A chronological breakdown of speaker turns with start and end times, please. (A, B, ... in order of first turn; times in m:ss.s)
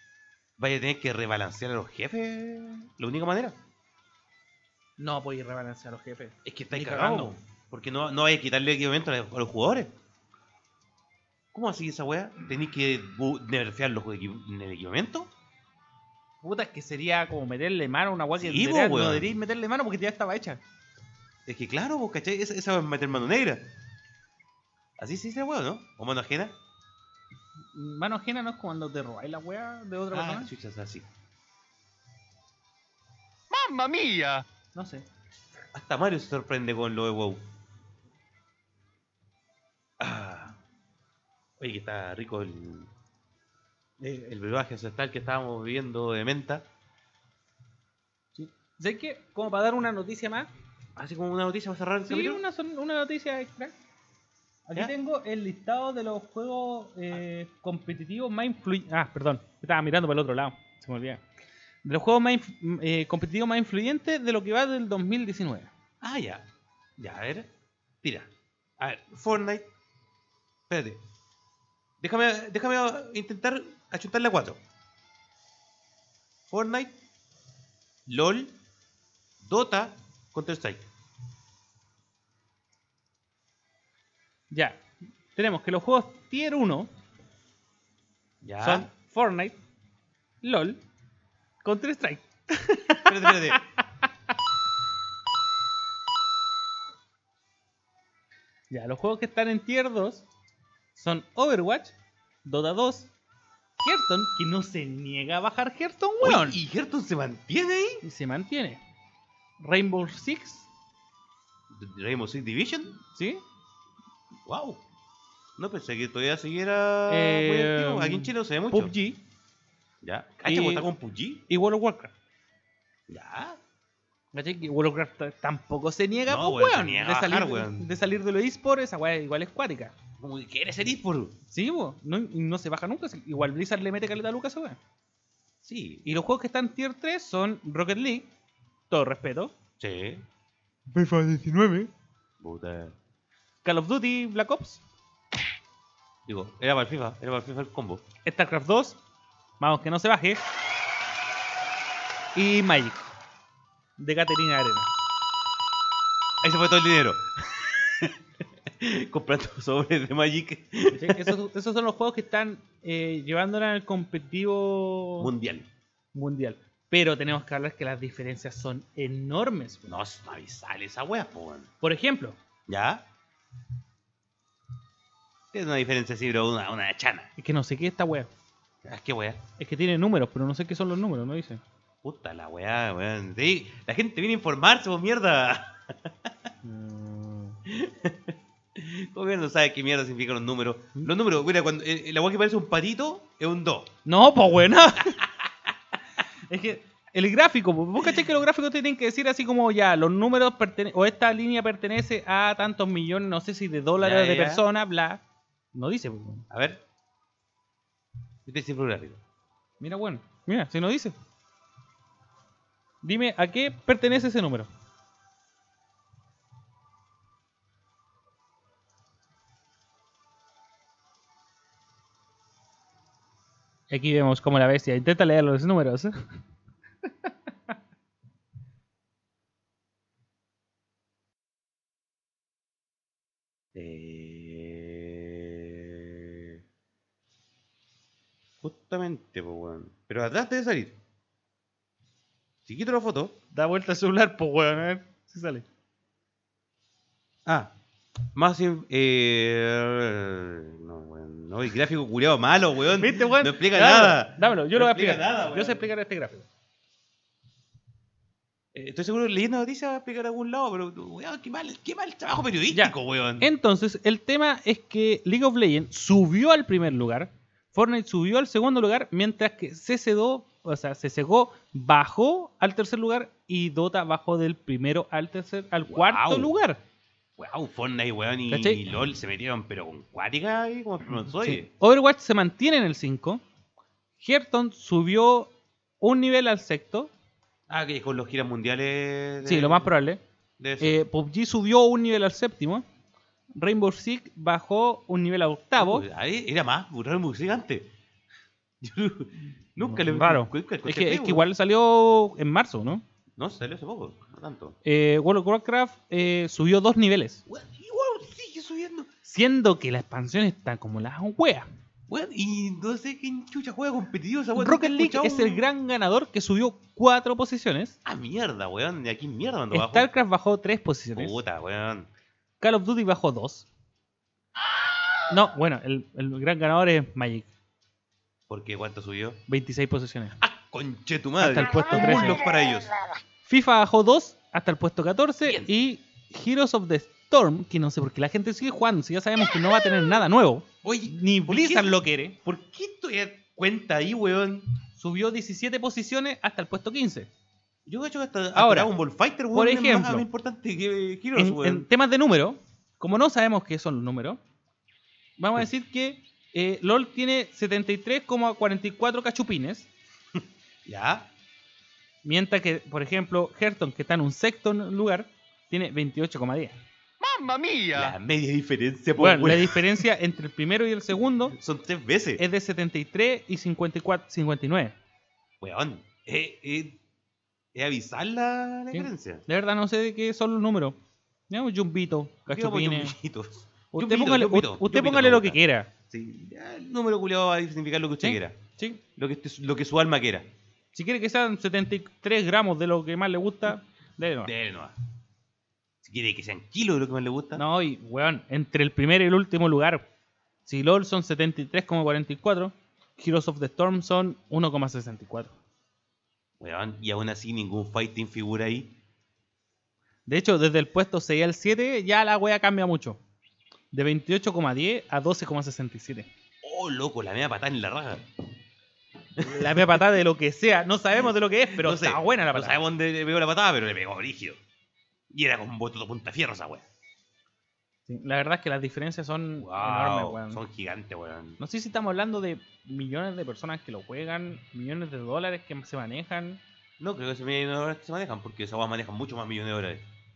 0:00.6-0:03.6 A
0:05.0-0:07.4 B
0:06.4-0:09.9 A
0:11.5-0:15.3 A
0:16.4-0:20.6 B
0:18.4-0:19.3 A
0:21.4-0:23.6 A
0:25.0-0:26.6 A
0:27.7-0:30.5 B
0:30.1-0:31.1 A
0:33.5-0:34.4 C
0:34.7-0:35.0 B
0:35.7-0:37.4 A
0:40.0-0:40.6 A
0:41.6-0:42.9 A
0:44.0-0:46.6 A
0:48.4-0:50.5 B
0:50.9-0:52.4 A
0:52.0-0:53.7 B
0:54.7-1:01.2 B
1:01.8-1:05.7 B
1:06.0-1:06.4 A
1:07.0-1:07.5 A
1:08.0-1:09.7 A
1:10.7-1:11.0 A
1:12.0-1:14.6 A
1:16.5-1:17.0 A
1:18.0-1:18.6 A
1:19.4-1:20.9 A
1:24.5-1:24.8 B
1:25.3-1:26.9 B
1:28.4-1:28.9 A
1:28.6-1:29.6 B
1:30.4-1:30.8 B
1:31.6-1:34.1 B
1:33.0-1:33.6 A
1:38.7-1:40.2 B
1:40.9-1:43.1 B
1:43.8-1:46.6 B
1:46.2-1:48.0 A
1:48.0-1:48.8 B
1:49.6-1:50.7 B
1:51.7-1:53.0 A
1:53.1-1:53.4 B
1:54.4-1:54.8 A
1:55.6-1:58.9 A
1:57.1-1:59.2 B
2:00.0-2:01.4 A
2:00.5-2:00.9 B
2:01.5-2:02.1 B
2:03.1-2:03.6 A
2:04.3-2:09.9 B
2:06.3-2:07.9 A
2:10.2-2:11.4 A
2:11.5-2:14.8 B
2:15.6-2:16.1 A
2:16.0-2:18.3 B
2:18.9-2:19.5 B
2:19.8-2:20.2 A
2:20.9-2:21.9 B
2:22.4-2:22.9 A
2:23.6-2:24.8 B
2:26.2-2:28.0 A
2:28.2-2:29.0 B
2:29.6-2:30.4 B
2:32.3-2:33.1 B
2:34.0-2:34.9 B
2:36.4-2:41.4 A
2:40.9-2:45.3 B
2:45.2-2:45.7 A
2:46.1-2:49.9 B
2:49.9-2:51.7 A
2:51.8-2:52.4 B
2:52.7-2:53.0 A
2:55.5-2:57.3 A
2:57.4-2:58.3 B
2:58.8-2:59.4 A
2:59.6-3:01.6 B
3:02.0-3:06.4 A
3:06.6-3:07.6 B
3:07.6-3:13.9 A
3:14.0-3:15.2 B
3:15.0-3:15.7 A
3:16.5-3:25.2 B
3:24.0-3:24.6 A
3:25.7-3:26.5 B
3:26.5-3:26.8 A
3:28.4-3:29.2 A
3:29.8-3:31.1 B
3:33.0-3:34.7 B
3:43.9-3:46.1 B
3:53.7-3:56.6 A
3:58.6-4:01.0 A
4:02.6-4:03.3 A
4:03.5-4:05.6 B
4:07.4-4:07.7 A
4:08.3-4:15.9 A
4:13.0-4:16.5 B
4:18.7-4:23.5 A
4:22.7-4:36.8 B
4:35.9-4:36.5 A
4:37.4-4:41.7 A
4:38.5-4:38.8 B
4:41.3-4:43.4 B
4:44.2-4:47.1 B
4:47.7-4:49.9 A
4:49.4-4:50.2 B
4:50.6-4:51.0 A
4:50.8-4:52.8 B
4:53.5-4:56.0 B
4:55.8-4:57.9 A
4:58.8-5:01.4 A
4:59.8-5:03.0 B
5:03.4-5:04.8 A
5:04.8-5:07.4 B
5:07.5-5:09.1 A
5:09.2-5:11.7 B
5:12.1-5:15.6 A
5:14.6-5:18.0 B
5:18.0-5:20.1 A
5:19.7-5:21.4 B
5:21.1-5:22.1 A
5:22.6-5:23.7 B
5:25.3-5:27.5 B
5:28.5-5:29.4 A
5:29.5-5:30.4 B
5:30.4-5:33.0 A
5:31.4-5:32.4 B
5:33.4-5:42.4 B
5:40.8-5:41.9 A
5:42.4-5:44.7 A
5:45.0-5:47.3 B
5:47.8-5:51.9 A
5:48.5-5:48.9 B
5:49.5-5:50.3 B
5:51.4-5:54.4 B
5:55.4-5:59.9 B
6:00.8-6:01.3 A
6:02.2-6:06.8 B
6:07.2-6:08.2 C
6:07.9-6:10.0 A
6:09.2-6:11.6 B
6:11.6-6:12.4 A
6:12.4-6:15.0 B
6:15.6-6:17.0 A
6:17.7-6:19.4 A
6:18.9-6:21.0 B
6:21.5-6:23.1 B
6:22.5-6:28.6 A
6:23.9-6:25.9 B
6:28.2-6:29.0 B
6:29.2-6:30.5 A
6:30.9-6:34.5 B
6:34.4-6:34.9 A
6:36.0-6:37.6 A
6:37.5-6:40.0 B
6:40.6-6:45.6 B
6:46.6-6:48.9 A
6:50.3-6:53.2 B
6:53.9-6:56.3 B
6:56.6-6:58.2 A
6:59.4-7:00.0 A
6:59.4-7:02.8 B
7:01.7-7:04.6 A
7:05.3-7:06.8 A
7:08.1-7:10.6 B
7:09.6-7:11.6 A
7:11.6-7:16.6 B
7:17.0-7:20.0 A